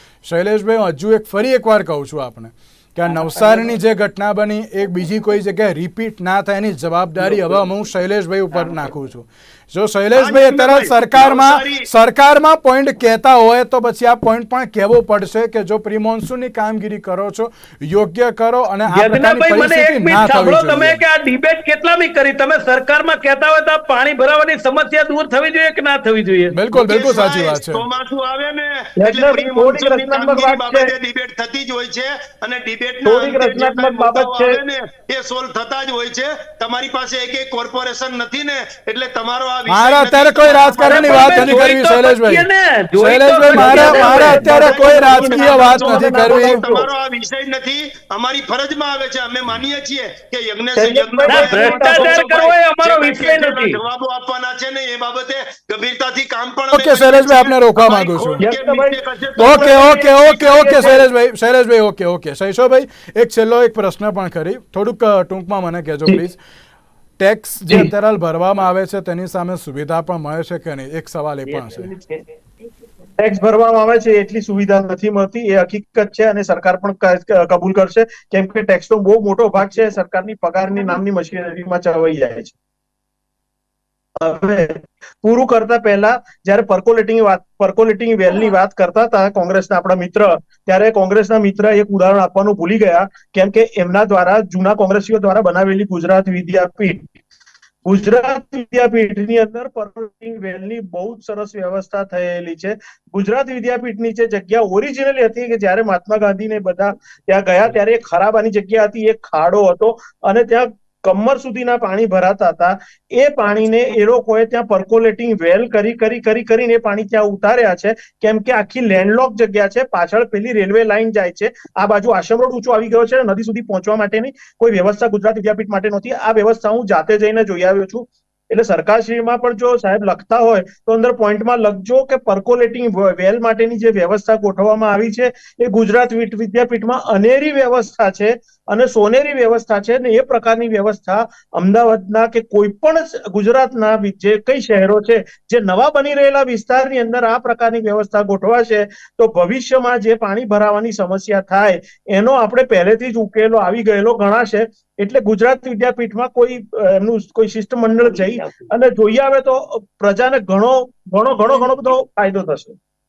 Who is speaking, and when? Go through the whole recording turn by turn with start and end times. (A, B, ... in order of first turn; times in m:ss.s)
0:00.2-0:21.0 A
0:10.2-0:11.9 B
0:18.9-0:26.6 C
0:26.5-0:27.8 A
0:26.7-0:41.7 B
0:29.0-0:30.9 D
0:33.0-0:34.6 D
0:39.7-0:46.6 A
0:40.8-0:44.5 C
0:43.5-0:46.9 D
0:44.4-1:01.0 B
0:50.8-0:52.4 D
0:51.3-0:53.8 C
0:56.7-0:58.4 A
0:58.4-1:01.0 D
0:59.4-1:06.4 A
1:07.2-1:11.9 A
1:11.5-1:11.9 C
1:13.2-1:22.5 D
1:24.2-1:37.1 D
1:37.8-2:42.8 D